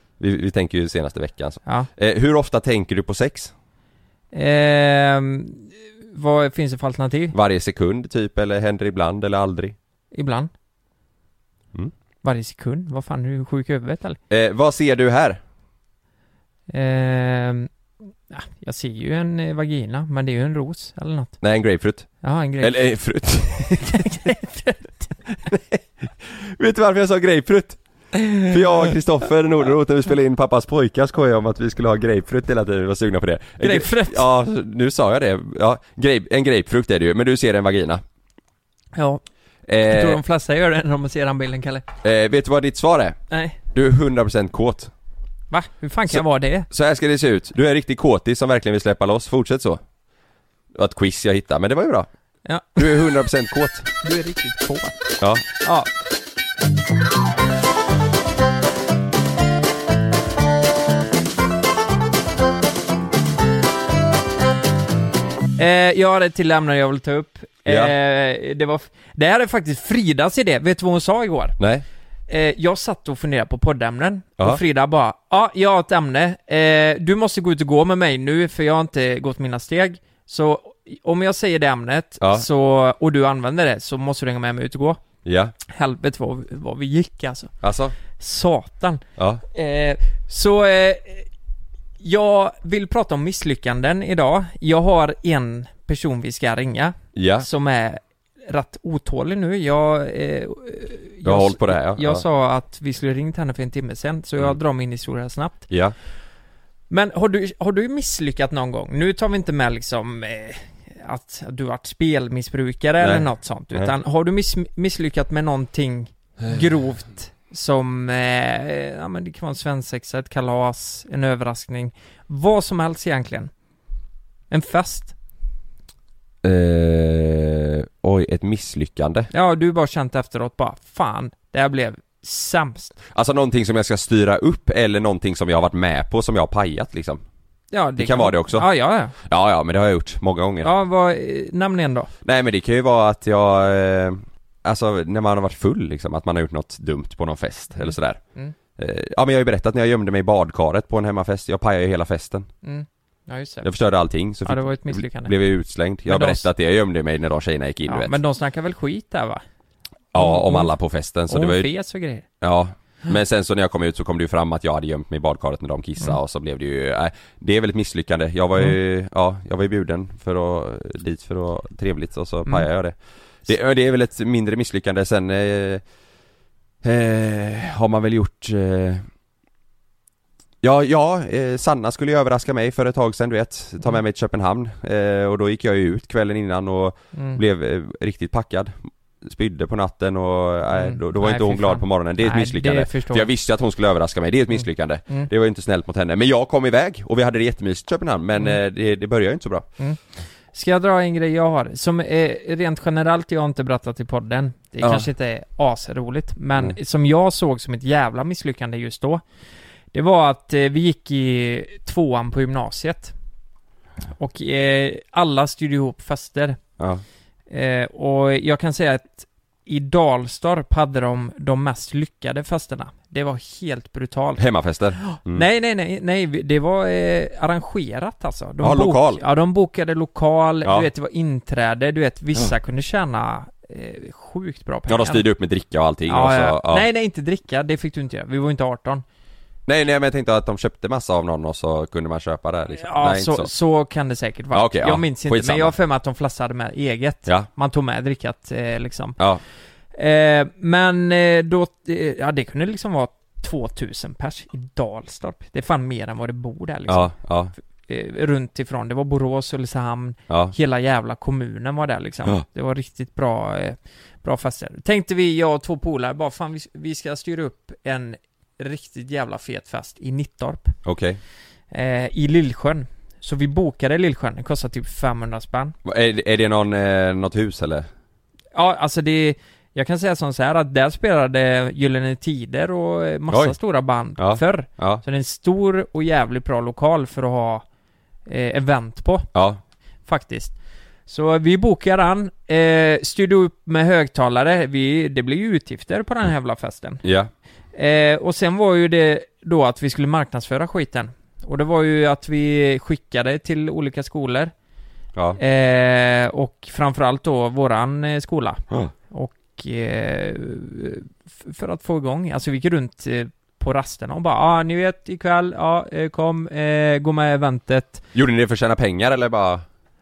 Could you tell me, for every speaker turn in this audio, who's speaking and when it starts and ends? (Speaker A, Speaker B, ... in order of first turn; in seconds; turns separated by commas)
Speaker A: 0.2-3.5, Speaker B: 4.3-7.3, Speaker A: 7.3-9.7, Speaker B: 10.1-10.5, Speaker B: 12.2-14.2, Speaker A: 14.3-15.4, Speaker B: 16.7-17.7, Speaker B: 18.3-21.4, Speaker A: 21.4-24.2, Speaker B: 22.2-23.0, Speaker B: 23.8-25.5, Speaker A: 26.2-38.0, Speaker B: 33.6-34.2, Speaker B: 38.9-39.2, Speaker A: 39.7-40.2, Speaker B: 39.9-41.9, Speaker A: 42.0-43.2, Speaker B: 43.3-43.6, Speaker A: 43.7-44.9, Speaker B: 45.5-46.7, Speaker A: 46.1-49.8, Speaker A: 50.7-52.1, Speaker B: 52.4-52.9, Speaker A: 52.8-53.9, Speaker B: 54.0-54.9, Speaker B: 55.6-55.9, Speaker B: 65.5-71.6, Speaker A: 67.7-67.9, Speaker A: 71.6-71.8, Speaker B: 72.3-85.0, Speaker A: 85.2-85.5, Speaker B: 85.7-87.5, Speaker A: 87.6-87.9, Speaker B: 88.2-91.3, Speaker A: 89.2-89.4, Speaker B: 92.0-105.7, Speaker A: 97.1-97.5, Speaker A: 101.2-102.2, Speaker A: 105.7-105.9, Speaker B: 106.9-123.5, Speaker A: 113.0-113.9, Speaker B: 124.5-125.1, Speaker A: 126.4-129.3, Speaker B: 129.3-132.9, Speaker A: 133.1-137.2, Speaker B: 137.7-139.2, Speaker A: 138.0-138.7, Speaker A: 139.2-140.7, Speaker B: 140.6-142.1, Speaker A: 142.2-148.2, Speaker B: 147.7-148.5, Speaker A: 148.8-152.5, Speaker B: 152.6-153.7, Speaker A: 153.6-158.1, Speaker B: 154.4-155.3, Speaker B: 156.0-156.5, Speaker B: 157.9-159.4, Speaker A: 160.1-161.7, Speaker B: 160.2-160.7, Speaker B: 161.3-162.3, Speaker A: 162.4-175.8, Speaker A: 176.8-179.1, Speaker A: 180.6-199.7, Speaker B: 187.1-187.4, Speaker B: 190.7-193.3, Speaker B: 194.5-195.3, Speaker B: 200.5-209.2, Speaker A: 204.8-205.1, Speaker B: 209.9-213.1, Speaker B: 214.2-216.6, Speaker B: 217.5-224.4, Speaker A: 224.4-225.4, Speaker B: 225.0-235.2, Speaker A: 228.6-229.2, Speaker A: 234.9-236.8, Speaker B: 236.1-239.0, Speaker A: 239.7-243.5, Speaker B: 242.8-249.2, Speaker A: 244.5-245.7, Speaker B: 249.9-257.1, Speaker A: 256.9-257.5, Speaker B: 257.9-270.8, Speaker A: 260.3-260.5, Speaker A: 270.8-271.2, Speaker B: 271.7-275.7, Speaker A: 275.8-277.9, Speaker B: 278.5-287.6, Speaker A: 283.3-283.5, Speaker A: 284.1-285.0, Speaker B: 288.2-289.3, Speaker A: 289.3-289.6, Speaker B: 290.1-297.0, Speaker A: 297.0-297.3, Speaker B: 297.7-304.5, Speaker B: 305.4-318.0, Speaker A: 318.1-319.6